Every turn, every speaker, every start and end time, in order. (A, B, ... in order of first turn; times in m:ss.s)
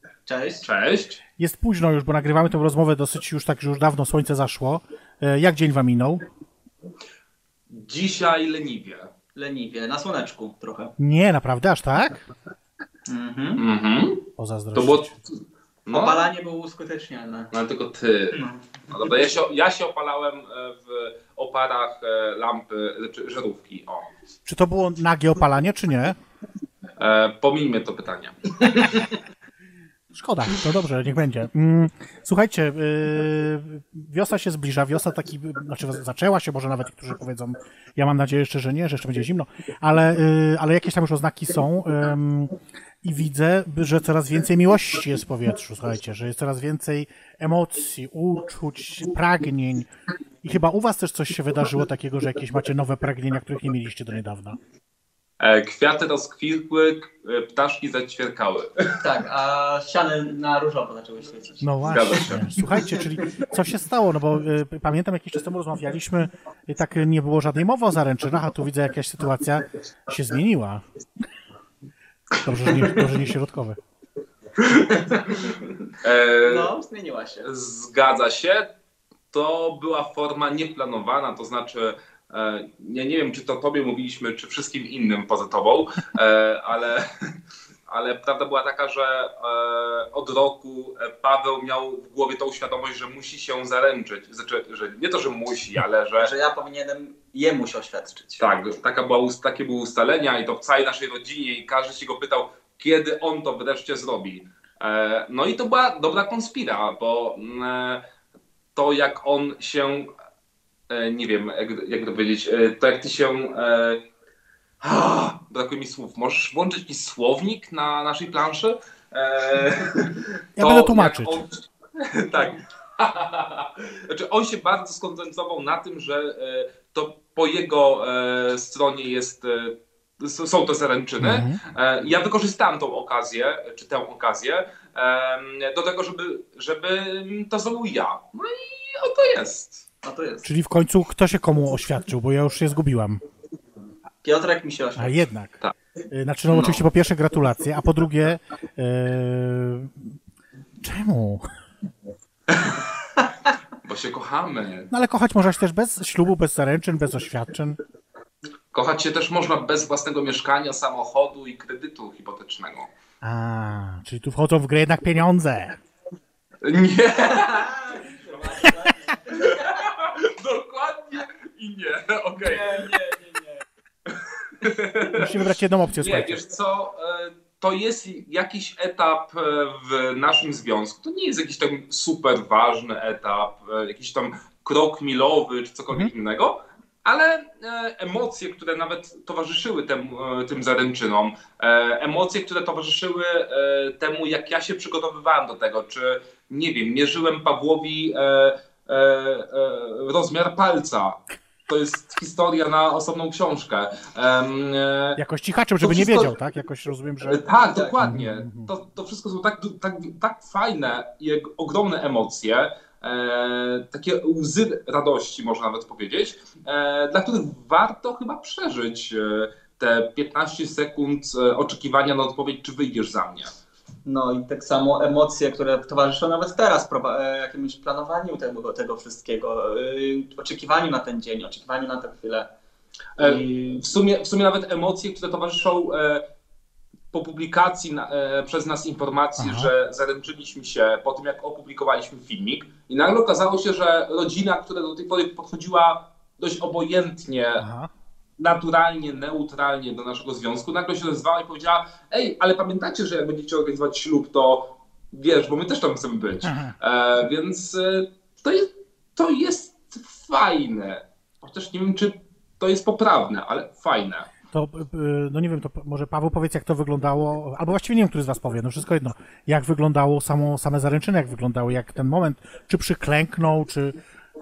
0:00.2-0:00.6 A
0:00.6-0:01.2 B
0:01.4-0:06.2 C
0:07.7-0:09.1 B
0:09.3-0:10.9 A
0:11.0-0:12.2 C
0:13.1-0:13.6 A
0:13.6-0:16.3 B
0:14.4-0:15.1 C
0:15.9-0:17.5 A
0:17.5-0:18.4 B
0:18.3-0:18.7 A
0:18.9-0:24.1 B
0:24.4-0:26.2 C
0:27.0-0:29.2 B
0:30.1-0:49.9 C
0:50.4-0:54.6 C
0:55.4-0:59.0 B
0:59.0-1:01.7 A
1:01.6-1:10.8 C
1:01.9-1:03.1 B
1:12.4-1:13.1 B
1:12.4-1:13.8 C
1:14.6-1:16.7 B
1:14.9-1:15.7 A
1:16.4-1:17.5 A
1:17.4-1:18.7 B
1:19.3-1:27.0 B
1:27.9-1:36.3 B
1:36.2-1:38.4 A
1:38.4-1:48.0 B
1:48.8-1:50.1 B
1:50.9-1:54.0 B
1:54.8-2:19.8 B
2:00.6-2:01.4 C
2:11.2-2:11.6 C
2:20.0-2:20.5 A
2:20.4-2:23.2 C
2:24.2-2:25.3 A
2:25.0-2:25.6 C
2:26.1-2:30.1 C
2:26.5-2:26.8 A
2:30.8-2:31.5 C
2:33.8-2:34.9 B
2:34.9-2:37.8 C
2:38.7-2:42.9 B
2:43.2-2:45.8 C
2:46.6-2:47.7 B
2:47.2-2:49.7 A
2:49.3-2:52.9 B
2:52.4-2:53.6 A
2:54.1-2:55.4 B
2:55.1-2:56.4 C
2:56.0-3:25.2 B
3:25.2-3:27.4 C
3:25.8-3:26.3 B
3:27.2-3:43.5 B
3:27.6-3:28.0 A
3:28.0-3:28.7 C
3:44.0-3:52.5 A
3:53.2-3:56.2 B
3:53.2-3:53.8 A
3:57.1-4:07.6 B
3:59.4-3:59.7 C
4:07.6-4:07.9 C
4:08.4-4:24.3 B
4:16.4-4:16.7 C
4:24.5-4:33.9 C